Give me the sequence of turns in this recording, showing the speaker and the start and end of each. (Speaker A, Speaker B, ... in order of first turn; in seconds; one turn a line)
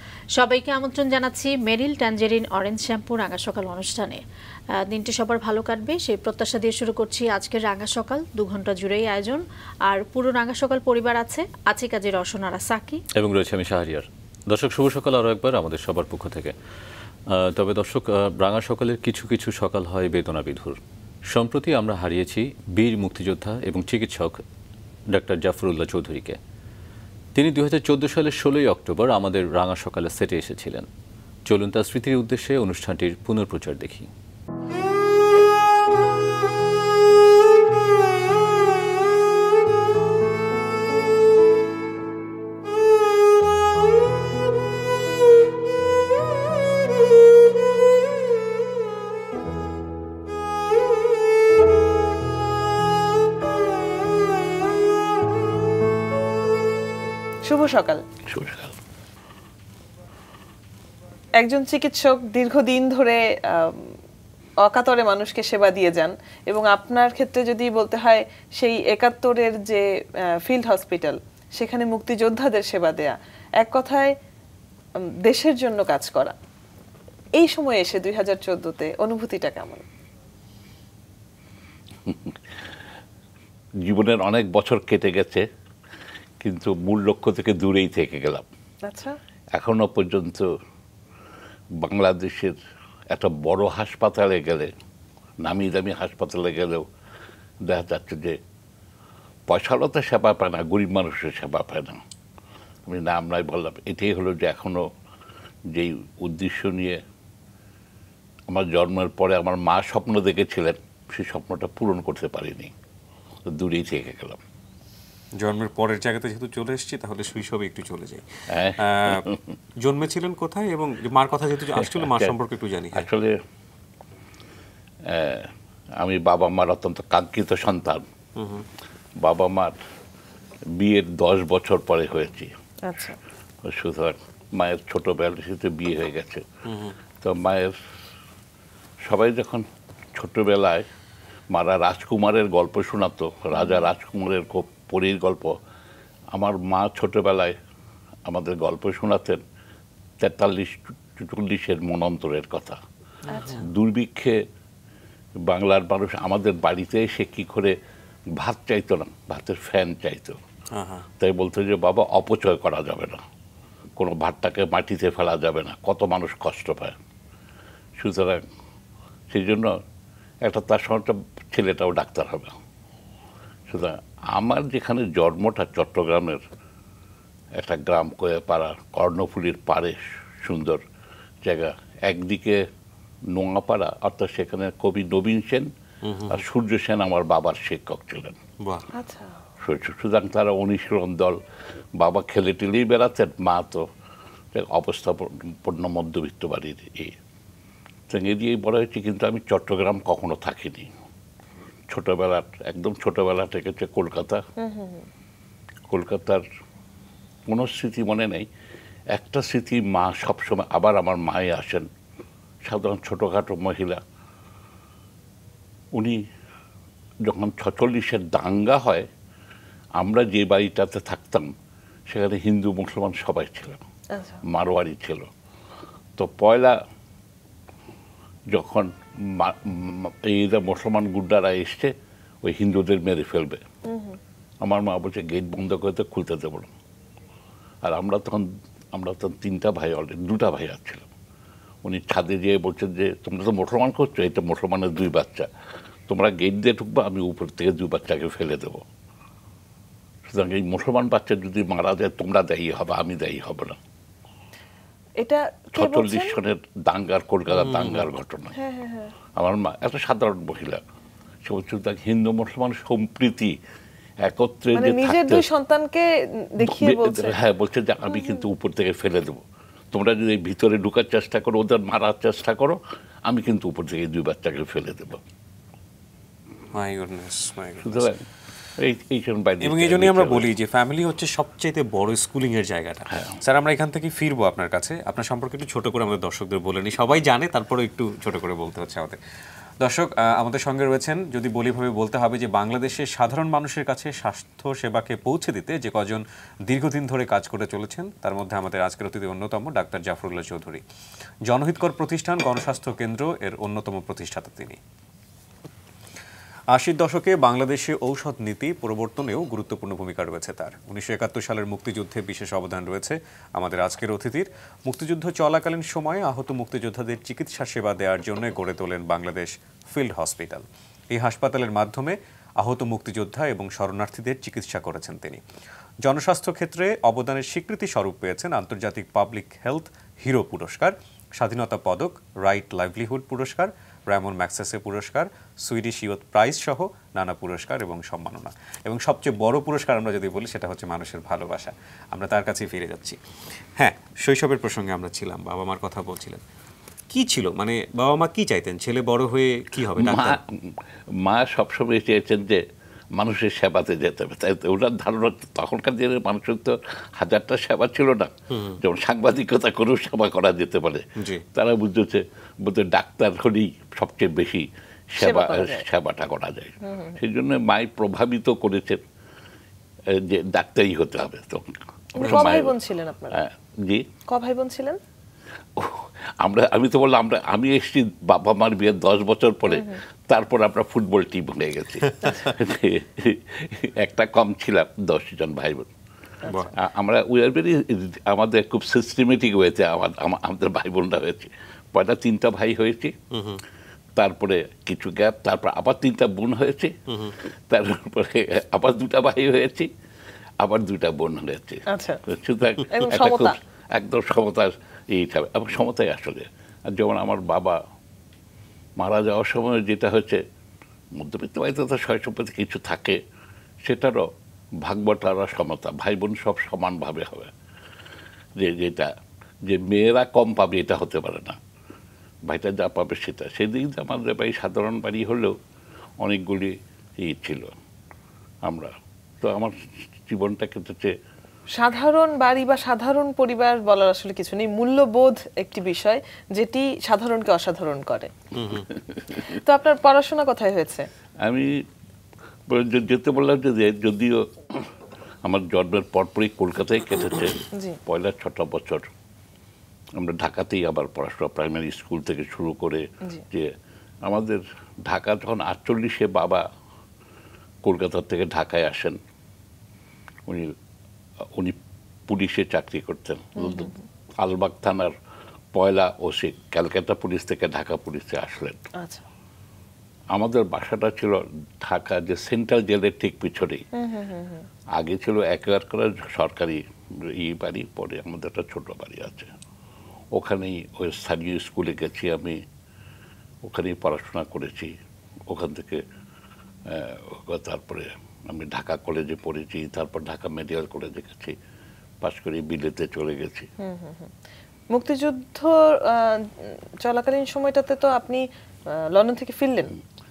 Speaker A: 0.3-4.2
Speaker A: 4.7-13.0
Speaker B: 13.1-16.5
Speaker B: 17.3-24.4
Speaker B: 25.1-26.4
Speaker B: 27.3-30.9
Speaker B: 31.5-34.1
Speaker C: 57.5-58.0
Speaker D: 58.3-58.7
Speaker C: 61.4-63.9
Speaker C: 64.6-69.8
Speaker C: 70.4-74.1
Speaker C: 75.2-76.3
Speaker C: 77.4-79.8
Speaker D: 82.0-82.4
Speaker D: 83.8-85.4
Speaker D: 86.4-88.5
Speaker C: 88.8-89.1
Speaker D: 89.5-90.5
Speaker D: 91.8-92.5
Speaker D: 93.1-94.7
Speaker D: 95.4-96.8
Speaker D: 97.7-98.4
Speaker D: 99.5-102.0
Speaker D: 102.8-104.8
Speaker D: 105.7-107.0
Speaker D: 108.5-112.7
Speaker D: 113.5-114.4
Speaker E: 115.4-118.2
Speaker D: 118.5-119.4
Speaker E: 118.8-119.3
Speaker E: 119.8-123.1
Speaker D: 121.7-122.3
Speaker D: 122.9-123.4
Speaker D: 125.0-128.0
Speaker E: 128.4-128.7
Speaker D: 129.2-129.7
Speaker D: 130.8-132.5
Speaker C: 132.9-133.2
Speaker D: 133.6-136.4
Speaker E: 136.7-136.9
Speaker D: 137.2-137.8
Speaker D: 139.1-140.9
Speaker D: 141.5-145.5
Speaker C: 143.5-143.8
Speaker D: 146.3-147.6
Speaker D: 148.3-149.4
Speaker D: 150.2-152.8
Speaker C: 153.3-153.6
Speaker E: 153.3-153.6
Speaker D: 153.6-154.4
Speaker D: 155.4-157.7
Speaker D: 158.3-160.4
Speaker E: 160.7-161.1
Speaker D: 161.2-163.2
Speaker D: 164.0-166.9
Speaker D: 168.0-168.4
Speaker D: 169.3-169.8
Speaker D: 170.4-172.6
Speaker D: 173.7-176.4
Speaker D: 177.6-180.8
Speaker D: 181.4-182.7
Speaker D: 183.3-185.7
Speaker E: 186.0-186.4
Speaker D: 186.3-188.4
Speaker C: 188.9-189.4
Speaker D: 189.6-191.4
Speaker D: 191.9-193.9
Speaker D: 194.5-197.1
Speaker D: 198.1-200.9
Speaker D: 201.9-204.4
Speaker C: 204.6-205.1
Speaker D: 205.9-206.4
Speaker D: 207.5-208.5
Speaker D: 209.1-211.9
Speaker D: 212.6-214.0
Speaker D: 215.9-216.2
Speaker D: 217.2-219.1
Speaker D: 220.0-221.5
Speaker D: 222.1-223.8
Speaker C: 224.1-224.4
Speaker D: 224.4-225.3
Speaker D: 226.2-226.8
Speaker D: 228.5-233.6
Speaker C: 233.8-234.2
Speaker D: 234.6-236.7
Speaker D: 237.8-241.1
Speaker D: 241.8-245.5
Speaker D: 246.1-248.8
Speaker D: 250.2-253.8
Speaker C: 255.2-256.4
Speaker D: 255.7-258.5
Speaker E: 257.5-258.1
Speaker C: 258.5-259.1
Speaker D: 259.4-260.8
Speaker D: 261.4-263.6
Speaker D: 264.2-265.4
Speaker C: 264.7-267.4
Speaker D: 266.6-275.2
Speaker E: 276.7-278.1
Speaker D: 277.8-278.2
Speaker D: 278.8-280.5
Speaker E: 279.6-289.2
Speaker D: 283.1-283.4
Speaker E: 289.8-300.8
Speaker E: 301.5-304.8
Speaker E: 306.7-325.4
Speaker E: 326.0-343.2
Speaker E: 343.8-346.4
Speaker E: 347.1-350.4
Speaker D: 349.9-352.6
Speaker D: 353.1-369.0
Speaker E: 358.5-358.8
Speaker E: 361.2-361.4
Speaker C: 365.2-365.8
Speaker C: 366.8-367.2
Speaker D: 370.1-372.7
Speaker C: 372.1-373.4
Speaker D: 373.3-374.1
Speaker C: 374.3-375.0
Speaker D: 375.8-385.9
Speaker C: 379.7-380.0
Speaker E: 386.5-386.7
Speaker D: 386.7-393.2
Speaker E: 393.3-393.6
Speaker D: 394.2-399.9
Speaker E: 397.1-397.3
Speaker D: 400.6-407.8
Speaker C: 401.9-402.2
Speaker C: 402.9-403.6
Speaker D: 409.0-410.4
Speaker D: 411.1-413.2
Speaker D: 413.8-414.3
Speaker D: 414.8-417.5
Speaker D: 418.6-419.1
Speaker D: 419.7-421.6
Speaker D: 422.5-425.6
Speaker D: 426.2-427.7
Speaker D: 428.6-431.1
Speaker C: 431.8-438.3
Speaker E: 438.6-438.9
Speaker C: 439.4-441.1
Speaker D: 441.4-441.8
Speaker D: 442.7-444.9
Speaker D: 445.4-449.1
Speaker D: 450.2-453.7
Speaker D: 454.2-456.6
Speaker D: 457.8-459.2
Speaker D: 460.4-460.7
Speaker D: 461.5-465.1
Speaker C: 463.6-464.0
Speaker D: 465.7-468.8
Speaker C: 469.0-469.2
Speaker D: 470.3-473.9
Speaker C: 473.9-474.7
Speaker D: 474.9-479.5
Speaker D: 480.3-482.6
Speaker D: 483.6-484.9
Speaker D: 485.5-486.0
Speaker D: 486.9-491.6
Speaker D: 492.2-493.7
Speaker C: 493.8-494.3
Speaker C: 494.9-498.4
Speaker C: 499.1-499.9